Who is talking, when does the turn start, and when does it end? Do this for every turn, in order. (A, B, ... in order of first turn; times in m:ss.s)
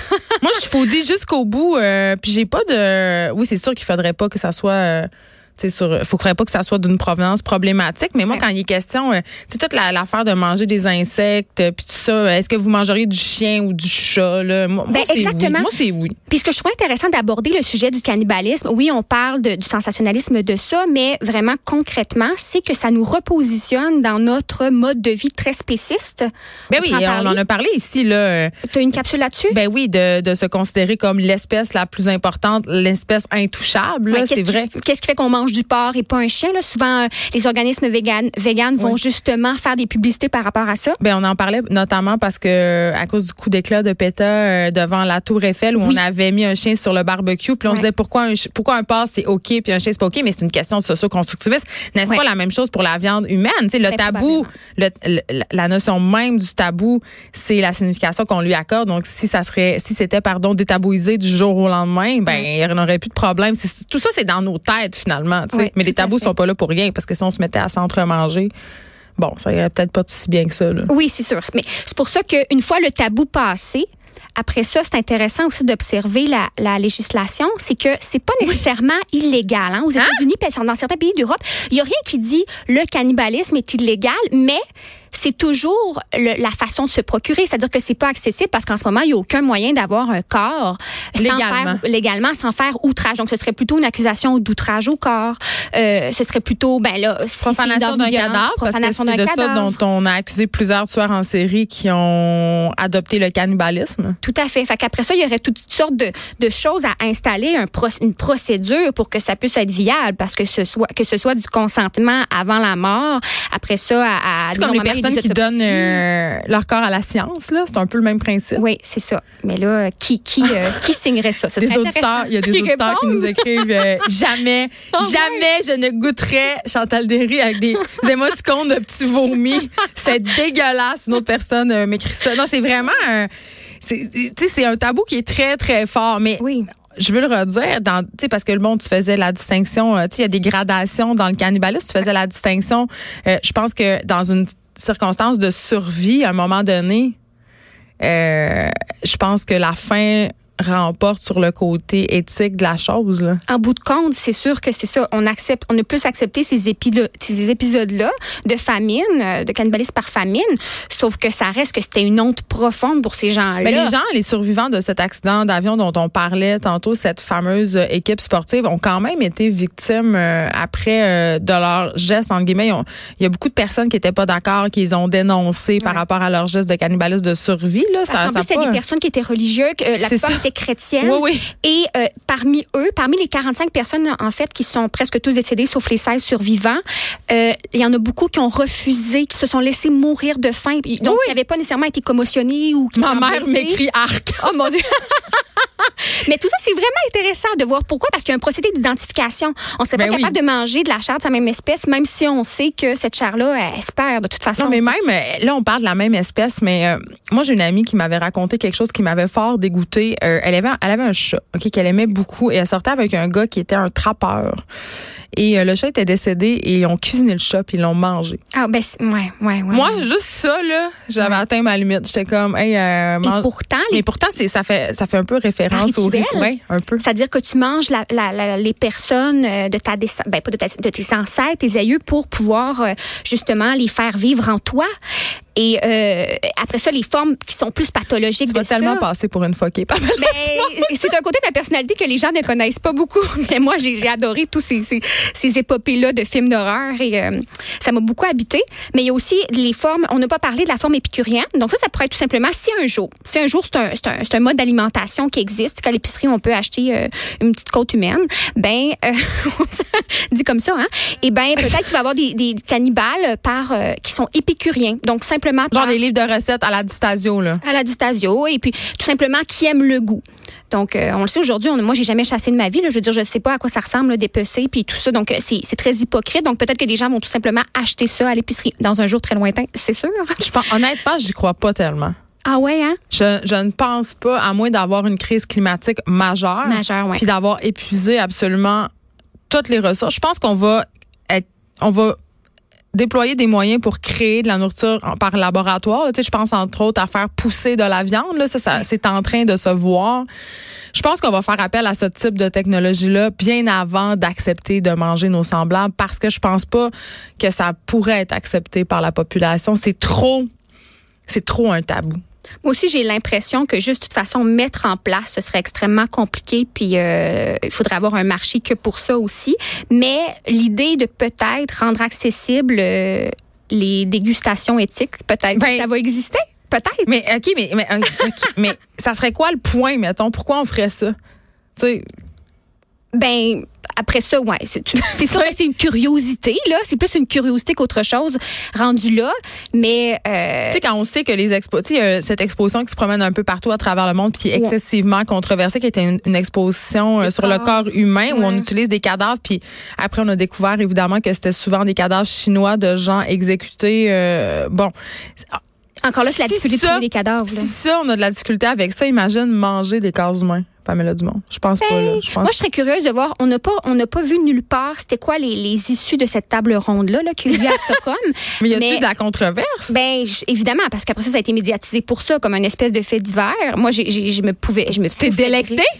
0:00.4-0:16.2 A
0:14.9-0:15.7 B
0:16.3-0:27.4 B
0:26.7-0:28.5 A
0:28.6-0:29.6 B
0:29.5-0:34.7 A
0:34.1-0:41.0 B
0:41.0-1:08.5 A
0:45.8-0:46.0 B
0:53.9-0:54.5 B
1:05.5-1:06.3 B
1:09.2-1:10.9 A
1:10.9-1:24.6 B
1:25.1-1:39.8 B
1:31.2-1:31.8 A
1:37.4-1:44.2 A
1:44.2-1:56.0 B
1:54.5-1:58.6 A
1:58.6-2:03.9 B
2:01.6-2:13.3 A
2:04.9-2:05.4 B
2:13.8-2:27.2 A
2:16.4-2:16.7 B
2:28.0-2:33.4 A
2:33.5-2:43.9 B
2:43.6-2:58.8 A
2:58.1-3:13.8 B
3:00.0-3:00.4 A
3:01.0-3:01.5 A
3:11.0-3:11.4 A
3:12.9-3:14.5 A
3:14.4-3:24.9 B
3:20.0-3:20.4 A
3:24.6-3:34.6 A
3:35.3-3:38.4 A
3:38.5-3:40.0 B
3:39.7-3:47.0 A
3:43.2-3:44.0 B
3:45.7-3:54.9 B
3:55.5-3:59.1 B
3:58.5-4:00.9 A
4:00.2-4:26.0 B
4:25.7-4:27.6 A
4:27.6-4:40.4 B
4:40.4-4:42.1 A
4:42.4-4:43.0 B
4:43.1-4:48.9 A
4:46.6-4:47.2 B
4:49.5-4:52.2 A
4:52.9-5:00.3 A
5:00.9-5:10.5 A
5:11.3-5:12.2 A
5:12.6-5:27.1 B
5:25.5-5:25.9 A
5:27.1-5:31.1 A
5:31.8-5:32.0 A
5:33.1-5:40.8 B
5:35.2-5:35.5 A
5:40.7-5:54.9 A
5:47.2-5:48.6 B
5:56.0-5:57.7 B
5:56.2-6:02.5 A
6:01.8-6:09.1 B
6:08.6-6:09.9 A
6:09.9-6:15.8 B
6:15.1-6:15.9 A